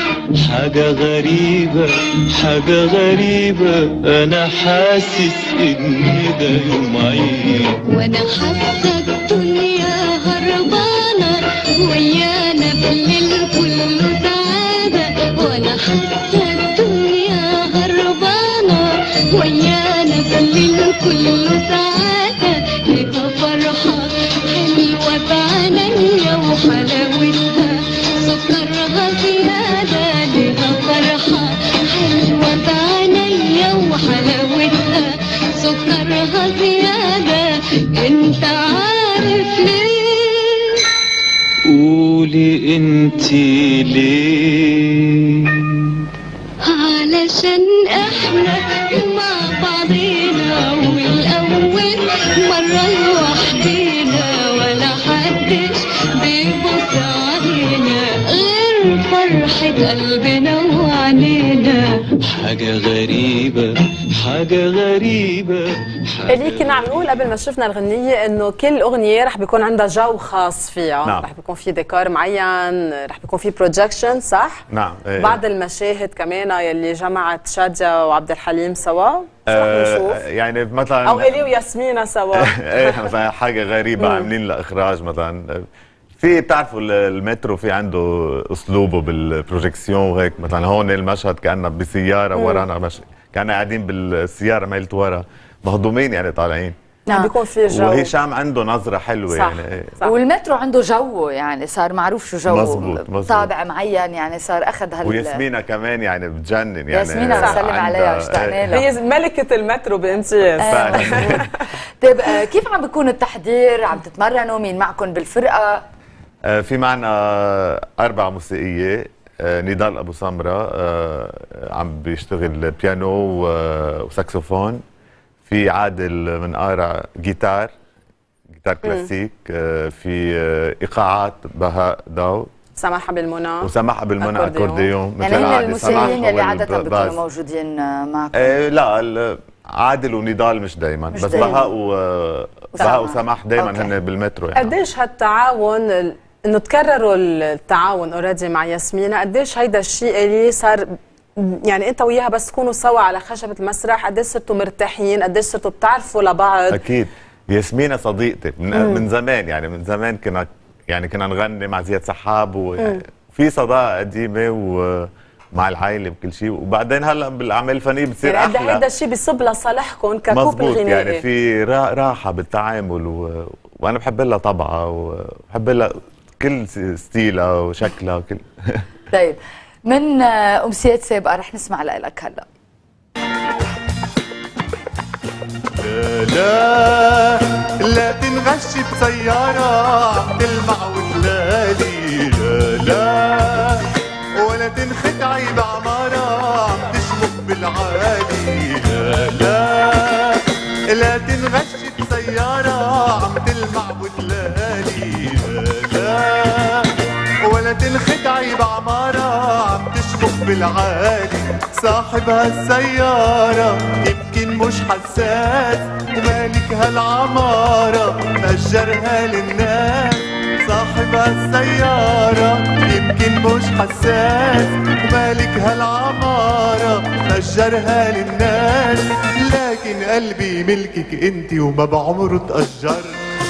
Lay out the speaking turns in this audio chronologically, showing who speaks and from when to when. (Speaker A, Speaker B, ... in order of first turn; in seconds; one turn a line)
Speaker A: 0.4-7.8
Speaker B: 7.9-11.3
Speaker B: 11.9-18.8
Speaker B: 19.4-22.5
Speaker B: 23.3-23.9
Speaker B: 24.5-26.6
Speaker B: 27.2-27.4
Speaker B: 28.5-31.4
Speaker B: 31.9-34.7
Speaker B: 35.7-36.5
Speaker B: 38.1-39.8
Speaker A: 41.7-45.7
Speaker B: 46.7-50.2
Speaker B: 51.7-54.1
Speaker B: 55.3-55.6
Speaker B: 58.5-59.8
Speaker A: 62.3-67.2
Speaker C: 66.3-74.7
Speaker D: 74.7-75.4
Speaker C: 75.2-80.2
Speaker D: 79.5-81.5
Speaker C: 81.0-83.1
Speaker D: 82.4-85.6
Speaker C: 84.0-84.3
Speaker D: 86.2-96.8
Speaker C: 92.3-92.7
Speaker C: 97.1-98.2
Speaker D: 97.7-99.9
Speaker C: 99.3-100.1
Speaker E: 100.0-105.4
Speaker D: 102.5-103.5
Speaker D: 105.0-108.7
Speaker E: 106.9-108.9
Speaker C: 107.3-107.6
Speaker C: 108.7-111.5
Speaker E: 110.6-111.5
Speaker D: 110.7-111.5
Speaker E: 112.0-115.8
Speaker D: 116.5-124.8
Speaker D: 125.5-127.7
Speaker D: 128.5-132.5
Speaker C: 128.8-129.1
Speaker C: 132.8-136.2
Speaker D: 133.6-137.2
Speaker E: 135.2-138.6
Speaker D: 138.4-144.7
Speaker E: 141.1-141.6
Speaker C: 141.3-141.6
Speaker E: 142.8-143.9
Speaker C: 142.8-143.1
Speaker C: 144.5-156.8
Speaker D: 156.7-168.8
Speaker C: 158.7-159.0
Speaker C: 168.2-171.2
Speaker D: 170.3-178.8
Speaker E: 179.1-182.5
Speaker F: 185.8-193.9
Speaker F: 194.4-206.9
Speaker F: 207.4-233.2